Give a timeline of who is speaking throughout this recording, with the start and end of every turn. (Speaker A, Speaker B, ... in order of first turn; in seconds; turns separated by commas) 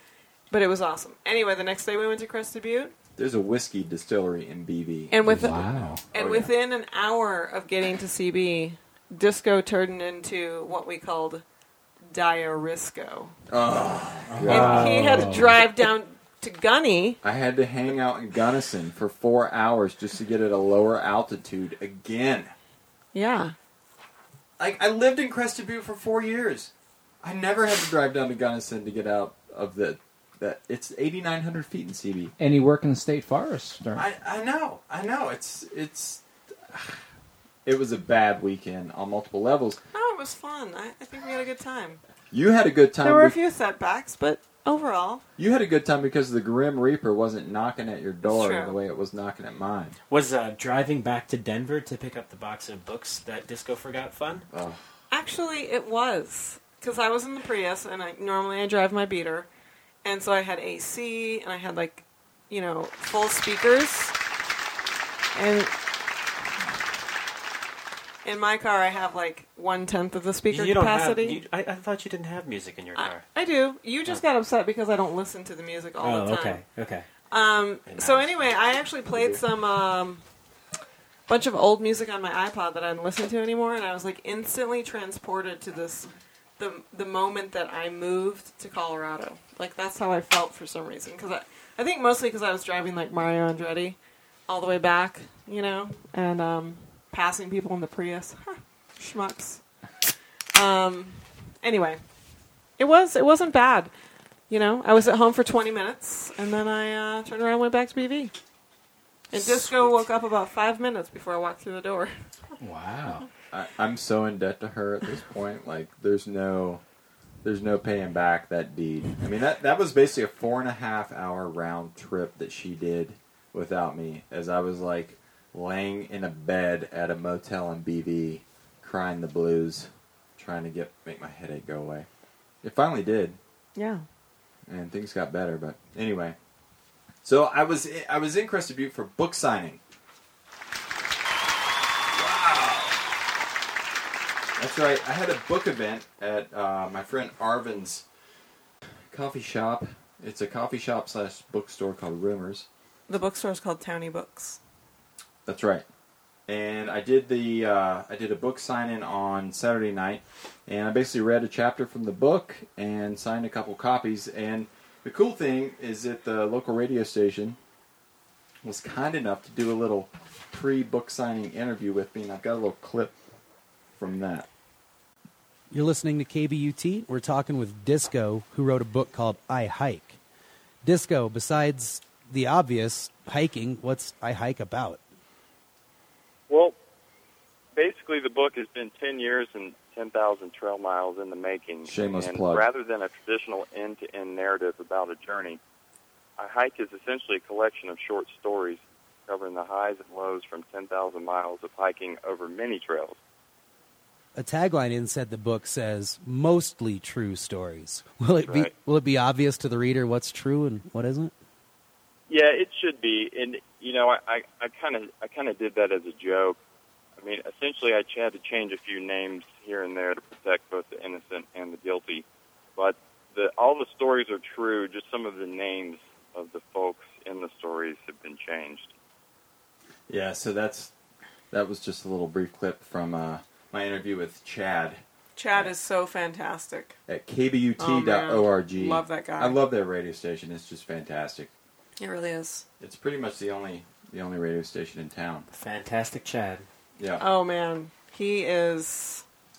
Speaker A: 0.5-2.9, Speaker B: 3.2-6.5, Speaker A: 5.1-11.4, Speaker C: 5.2-6.0, Speaker A: 12.1-13.3, Speaker B: 13.5-15.3, Speaker D: 14.3-15.0, Speaker C: 14.4-15.6, Speaker A: 14.5-17.2, Speaker B: 17.2-22.5, Speaker A: 23.1-23.5, Speaker B: 24.6-26.7, Speaker B: 27.2-32.3, Speaker C: 32.4-34.0, Speaker B: 34.0-37.0, Speaker B: 37.6-39.8, Speaker A: 39.9-42.0, Speaker B: 42.3-43.4, Speaker A: 43.0-45.2, Speaker B: 45.4-50.0, Speaker A: 48.2-48.8, Speaker D: 50.1-54.5, Speaker B: 54.5-54.8, Speaker A: 55.1-59.5, Speaker A: 60.0-64.1, Speaker A: 65.3-65.7, Speaker A: 68.2-71.4, Speaker D: 70.5-73.2, Speaker A: 73.0-76.6, Speaker D: 76.0-77.1, Speaker A: 77.3-80.2, Speaker D: 77.9-78.4, Speaker B: 79.1-79.4, Speaker A: 81.3-99.6, Speaker A: 100.5-102.0, Speaker A: 102.8-103.9, Speaker A: 104.5-108.3, Speaker A: 109.3-112.1, Speaker C: 112.6-113.3, Speaker B: 113.5-116.8, Speaker B: 117.4-132.1, Speaker B: 132.6-133.4, Speaker A: 133.8-134.0, Speaker B: 134.7-136.4, Speaker B: 137.2-139.8, Speaker B: 142.1-143.0, Speaker B: 144.6-148.1, Speaker B: 149.1-152.7, Speaker A: 153.1-154.6, Speaker B: 155.5-155.8, Speaker B: 156.5-167.6, Speaker B: 168.6-173.1, Speaker B: 174.0-174.5, Speaker E: 175.7-180.2, Speaker E: 180.8-185.0, Speaker F: 186.5-186.8, Speaker F: 187.8-195.6, Speaker B: 191.8-192.7, Speaker F: 196.4-203.2, Speaker E: 204.4-211.3, Speaker F: 208.4-208.7, Speaker F: 212.3-216.6, Speaker F: 217.2-222.2, Speaker F: 222.8-228.9, Speaker B: 230.1-230.9, Speaker B: 231.5-235.0, Speaker A: 235.4-237.0, Speaker B: 237.1-241.5, Speaker A: 237.8-239.6, Speaker A: 242.0-242.7, Speaker B: 242.8-245.5, Speaker D: 245.5-246.7, Speaker B: 247.0-247.2, Speaker A: 247.2-249.2